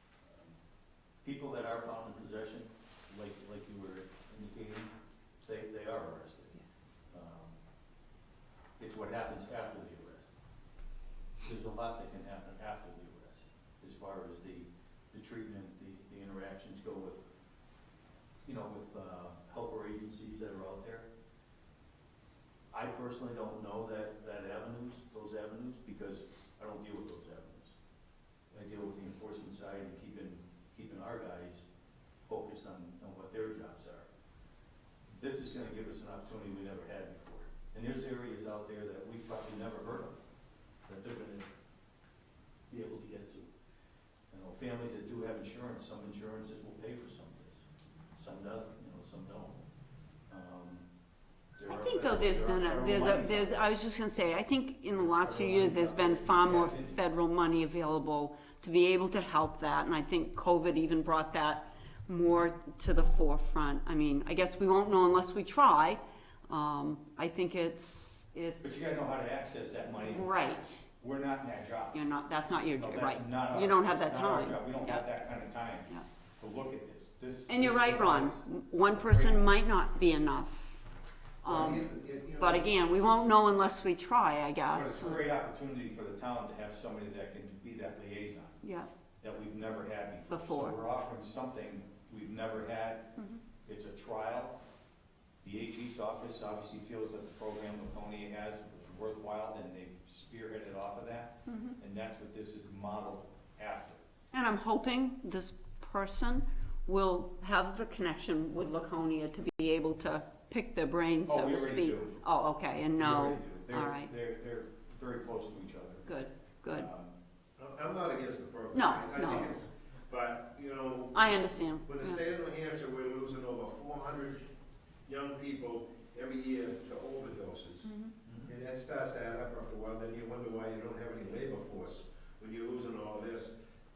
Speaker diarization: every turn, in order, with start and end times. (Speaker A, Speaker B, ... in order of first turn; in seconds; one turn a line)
Speaker A: 0.2-0.6
Speaker A: 1.2-4.9
Speaker A: 5.4-6.6
Speaker A: 7.1-7.5
Speaker A: 8.8-10.3
Speaker A: 11.4-17.2
Speaker A: 18.4-21.1
Speaker A: 22.7-27.8
Speaker A: 28.5-31.7
Speaker A: 32.2-34.1
Speaker A: 35.1-40.1
Speaker A: 40.9-41.5
Speaker A: 42.7-43.5
Speaker A: 44.3-49.6
Speaker A: 50.3-50.9
Speaker A: 51.5-53.6
Speaker B: 51.6-69.0
Speaker A: 54.9-57.0
Speaker A: 68.6-70.3
Speaker B: 70.0-70.9
Speaker A: 71.0-72.0
Speaker B: 71.9-75.1
Speaker A: 72.7-79.4
Speaker B: 77.5-80.8
Speaker B: 81.4-81.8
Speaker C: 81.5-83.3
Speaker B: 82.4-85.2
Speaker A: 84.7-88.6
Speaker B: 88.6-88.9
Speaker A: 89.2-93.1
Speaker B: 90.3-90.8
Speaker A: 93.6-94.6
Speaker A: 95.4-104.0
Speaker B: 101.5-101.7
Speaker B: 104.3-114.1
Speaker A: 111.2-112.2
Speaker A: 112.9-116.1
Speaker B: 116.0-116.9
Speaker A: 116.7-117.1
Speaker C: 117.6-124.5
Speaker B: 118.7-119.5
Speaker B: 121.1-122.2
Speaker C: 125.0-133.5
Speaker A: 128.2-128.5